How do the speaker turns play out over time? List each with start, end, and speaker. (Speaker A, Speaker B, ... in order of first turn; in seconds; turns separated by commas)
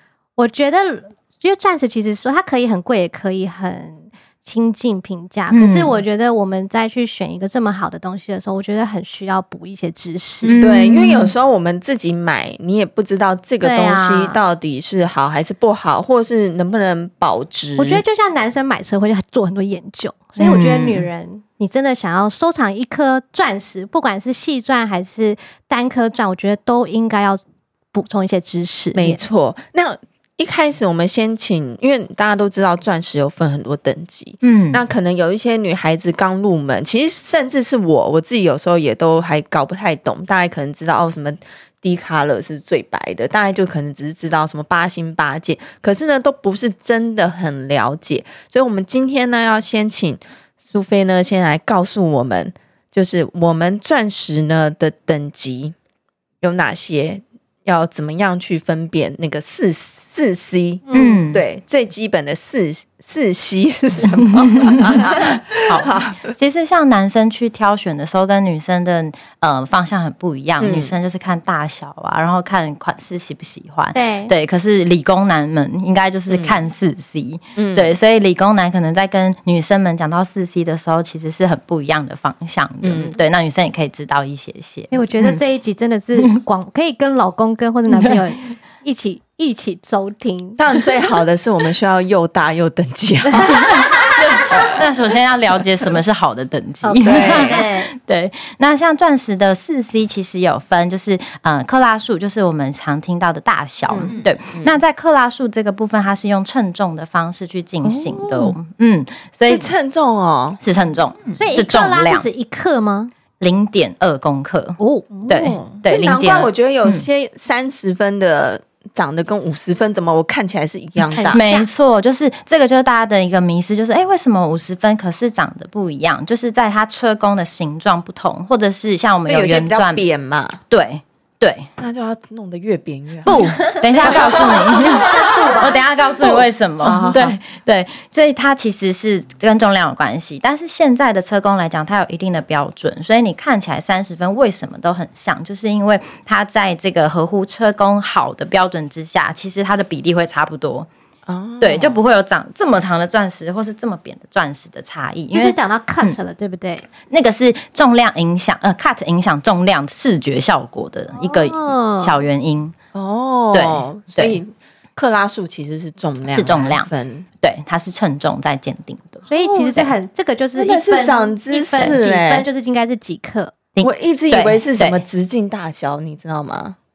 Speaker A: 0.3-10.6, Speaker B: 5.5-6.0, Speaker B: 10.4-11.3, Speaker C: 10.6-18.0, Speaker A: 13.6-14.4, Speaker A: 17.8-27.4, Speaker B: 20.4-21.1, Speaker A: 27.9-29.2, Speaker C: 28.9-55.8, Speaker B: 34.4-34.8, Speaker C: 56.4-66.3, Speaker A: 60.9-61.2, Speaker B: 60.9-61.4, Speaker B: 64.0-85.4, Speaker C: 70.6-70.9, Speaker A: 73.9-74.3, Speaker C: 76.3-76.6, Speaker C: 77.5-77.9, Speaker C: 82.8-83.2, Speaker A: 84.9-90.6, Speaker B: 87.9-88.2, Speaker C: 90.6-94.8, Speaker A: 93.3-94.5, Speaker B: 93.4-109.7, Speaker A: 96.8-97.9, Speaker C: 97.0-97.6, Speaker A: 103.9-104.1, Speaker C: 104.2-104.8, Speaker C: 107.8-108.6, Speaker C: 109.5-110.6, Speaker B: 110.6-112.3, Speaker A: 111.3-113.1, Speaker B: 113.4-117.1, Speaker A: 114.8-115.6, Speaker C: 115.2-121.4, Speaker A: 121.0-121.7, Speaker B: 121.3-130.0, Speaker C: 129.3-130.6, Speaker B: 130.7-131.7, Speaker C: 131.8-137.4, Speaker B: 133.2-150.9, Speaker A: 134.0-135.8, Speaker C: 151.2-152.0, Speaker B: 151.6-156.2, Speaker A: 155.3-156.9, Speaker B: 157.1-162.8, Speaker A: 161.2-162.2, Speaker C: 162.9-167.2, Speaker B: 163.5-164.4, Speaker B: 166.3-166.9, Speaker B: 167.4-169.9, Speaker C: 169.3-169.9, Speaker A: 169.3-173.6, Speaker C: 170.5-172.4, Speaker B: 173.8-175.0, Speaker C: 173.8-176.8